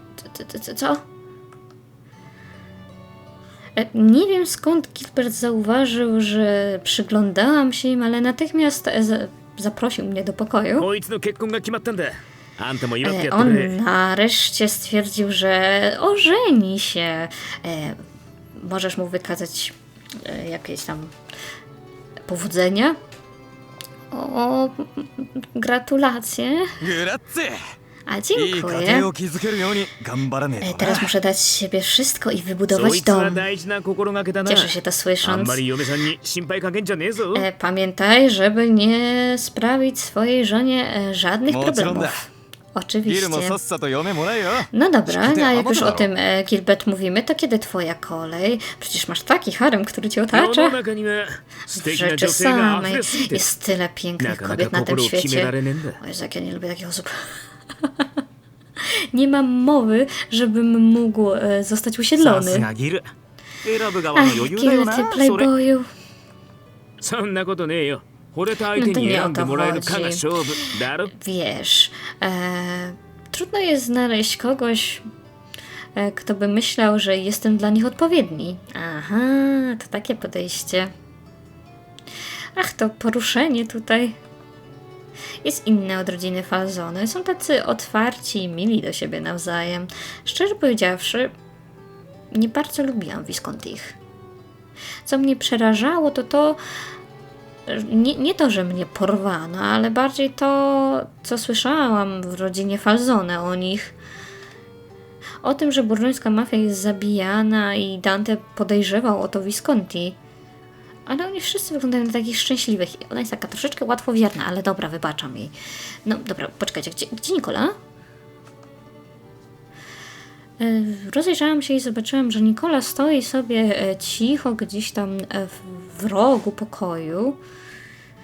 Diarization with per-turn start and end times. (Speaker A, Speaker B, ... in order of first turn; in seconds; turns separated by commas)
Speaker A: 0.2-1.0, Speaker A: 3.8-10.9, Speaker B: 10.8-13.8, Speaker A: 13.0-18.0, Speaker A: 18.5-21.1, Speaker A: 22.3-23.0, Speaker A: 24.1-26.8, Speaker C: 26.8-27.6, Speaker A: 28.1-29.1, Speaker C: 28.3-31.1, Speaker A: 30.6-33.4, Speaker B: 32.7-37.5, Speaker A: 34.4-35.6, Speaker A: 37.3-43.6, Speaker C: 41.5-42.2, Speaker C: 43.0-46.1, Speaker A: 44.7-50.8, Speaker B: 50.3-53.4, Speaker A: 51.7-58.1, Speaker B: 54.2-56.0, Speaker A: 58.9-62.7, Speaker B: 62.2-62.9, Speaker B: 63.6-65.5, Speaker A: 64.1-65.8, Speaker B: 67.0-71.1, Speaker A: 68.7-75.0, Speaker A: 75.9-80.9, Speaker A: 82.5-84.2, Speaker A: 85.4-91.3, Speaker A: 92.3-94.0, Speaker A: 95.0-96.6, Speaker A: 97.7-103.9, Speaker A: 105.4-110.2, Speaker A: 111.1-115.5, Speaker A: 116.0-117.8, Speaker A: 120.6-127.4